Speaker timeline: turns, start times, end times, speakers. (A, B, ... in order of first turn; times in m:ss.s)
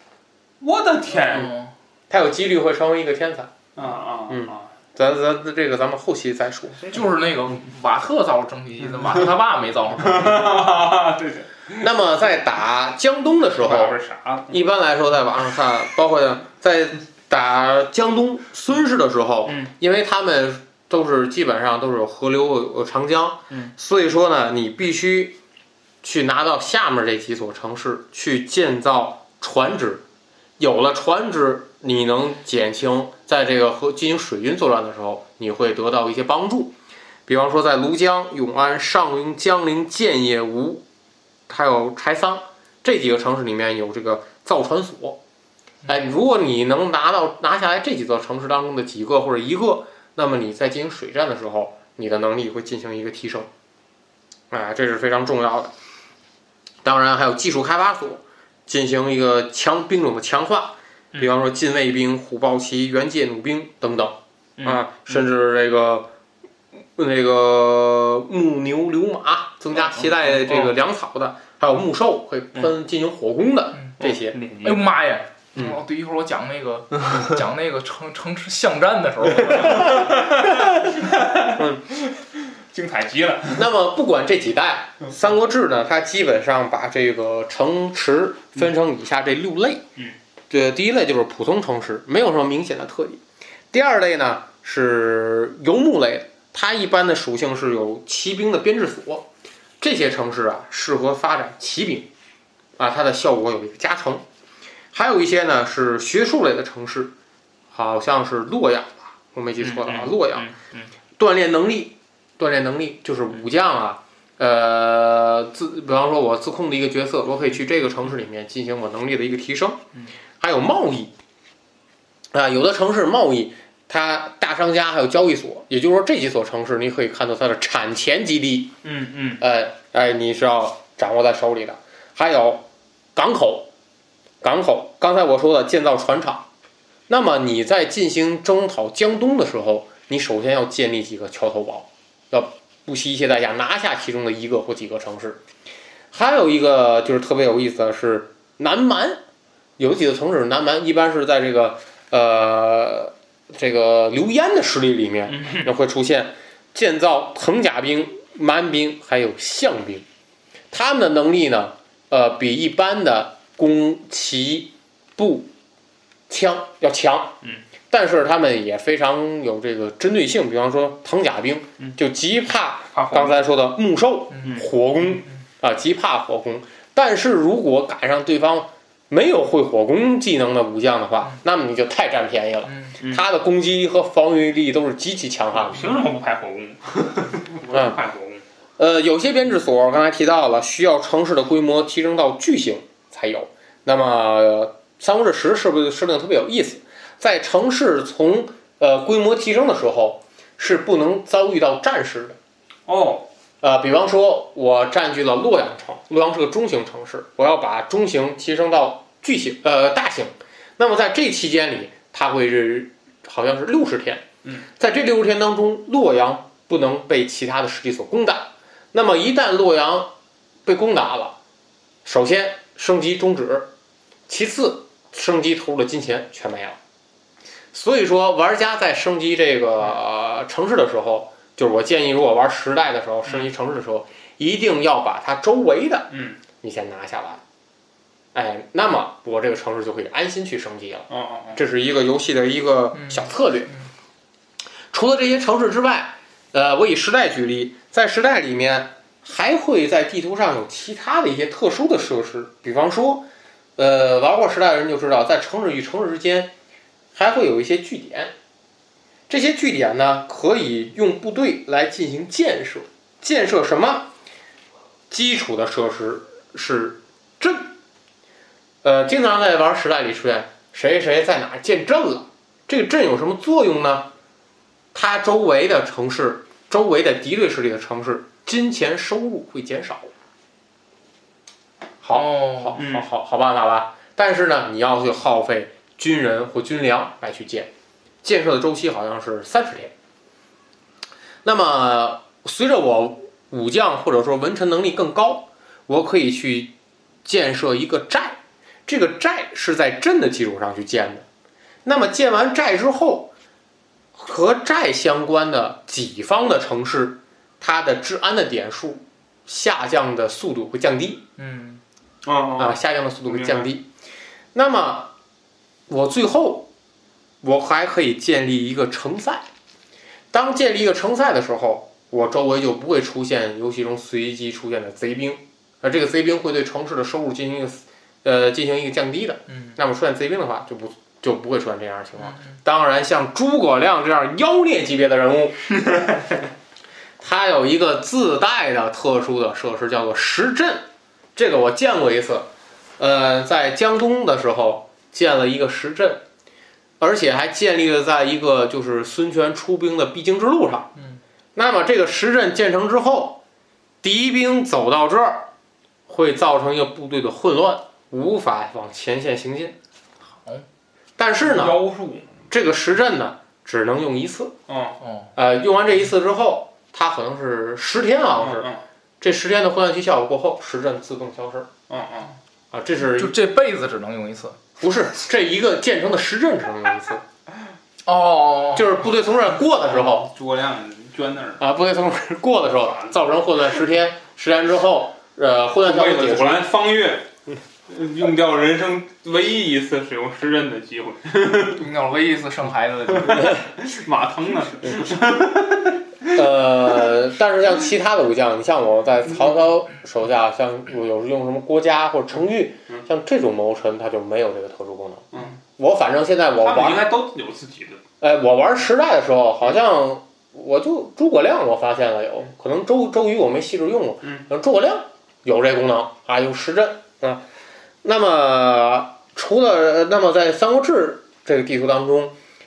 0:00.6-0:01.5 A
0:01.3-0:01.7 B
0:02.1-0:03.5 C
0:03.8-0:04.7 A
0:04.3-0:06.9 C
0:06.9-0:10.5 B
0:10.0-0:11.8 A
0:11.8-0:14.0 C
0:13.6-0:14.6 A
0:14.5-0:25.4 C
0:19.4-0:19.7 A
0:26.0-0:30.0 C
0:30.6-0:36.7 C
0:37.3-0:40.8 C
0:41.5-0:45.2 C
0:45.9-0:53.5 C
0:54.5-0:55.7 C
0:56.8-1:06.1 C
1:04.6-1:05.2 A
1:07.0-1:14.4 C
1:14.0-1:15.0 A
1:14.6-1:20.1 B
1:15.5-1:15.8 C
1:19.6-1:23.7 A
1:23.6-1:29.8 C
1:30.5-1:33.2 C
1:33.7-1:39.3 C
1:39.8-1:42.1 C
1:42.8-1:44.2 C
1:44.9-1:47.1 C
1:47.7-1:50.5 C
1:49.6-1:50.9 A
1:51.2-1:59.8 C
2:00.4-2:01.1 C
2:02.3-2:08.7 C
2:08.8-2:09.4 A
2:09.4-2:13.7 C
2:14.4-2:16.5 C
2:17.1-2:25.4 C
2:26.1-2:29.2 C
2:29.8-2:40.0 C
2:35.3-2:35.7 A
2:40.7-2:45.5 C
2:46.3-2:47.4 C
2:47.9-3:05.9 C
2:52.9-2:53.4 A
3:02.6-3:02.9 B
3:05.6-3:08.4 A
3:07.7-3:08.0 C
3:08.8-3:22.4 C
3:22.9-3:23.3 A
3:23.6-3:40.1 C
3:40.6-3:41.4 C
3:42.0-3:43.7 C
3:44.3-3:46.8 C
3:47.7-3:57.4 C
3:56.1-3:56.4 A
3:58.3-4:03.7 C
4:01.1-4:01.6 A
4:02.9-4:03.8 B
4:04.9-4:13.2 C
4:13.8-4:16.5 C
4:17.1-4:18.3 C
4:19.3-4:24.1 C
4:25.1-4:27.7 C
4:28.8-4:34.1 C
4:34.9-4:40.1 C
4:42.0-4:47.7 C
4:42.1-4:42.8 B
4:42.7-4:43.1 A
4:48.2-4:49.9 C
4:51.4-4:56.7 C
4:57.2-5:01.2 C
5:01.8-5:03.3 C
5:04.1-5:11.2 C
5:11.4-5:11.8 B
5:12.2-5:13.7 A
5:12.6-5:13.9 C
5:14.5-5:15.1 C
5:15.9-5:16.7 C
5:17.4-5:19.4 C
5:20.3-5:35.6 C
5:29.5-5:29.7 B
5:32.2-5:32.5 B
5:37.2-5:46.2 C
5:47.0-5:50.9 C
5:51.6-5:53.4 C
5:54.0-5:55.5 C
5:56.1-5:59.8 C
6:01.2-6:01.8 C
6:01.4-6:02.4 A
6:02.5-6:04.5 C
6:04.7-6:05.0 A
6:05.0-6:05.3 B
6:05.3-6:08.7 C
6:08.4-6:08.8 A
6:09.2-6:11.7 C
6:11.9-6:12.3 A
6:12.7-6:13.3 C
6:13.0-6:14.6 B
6:14.8-6:17.2 C
6:18.0-6:18.9 B
6:18.7-6:20.3 C
6:19.9-6:21.6 A
6:21.6-6:26.7 C
6:25.8-6:27.3 A
6:27.9-6:31.8 A
6:31.8-6:33.6 B
6:33.3-6:36.4 A
6:36.3-6:47.1 C
6:45.3-6:45.6 A
6:46.6-6:48.0 A
6:48.2-6:57.4 C
6:58.0-7:02.4 C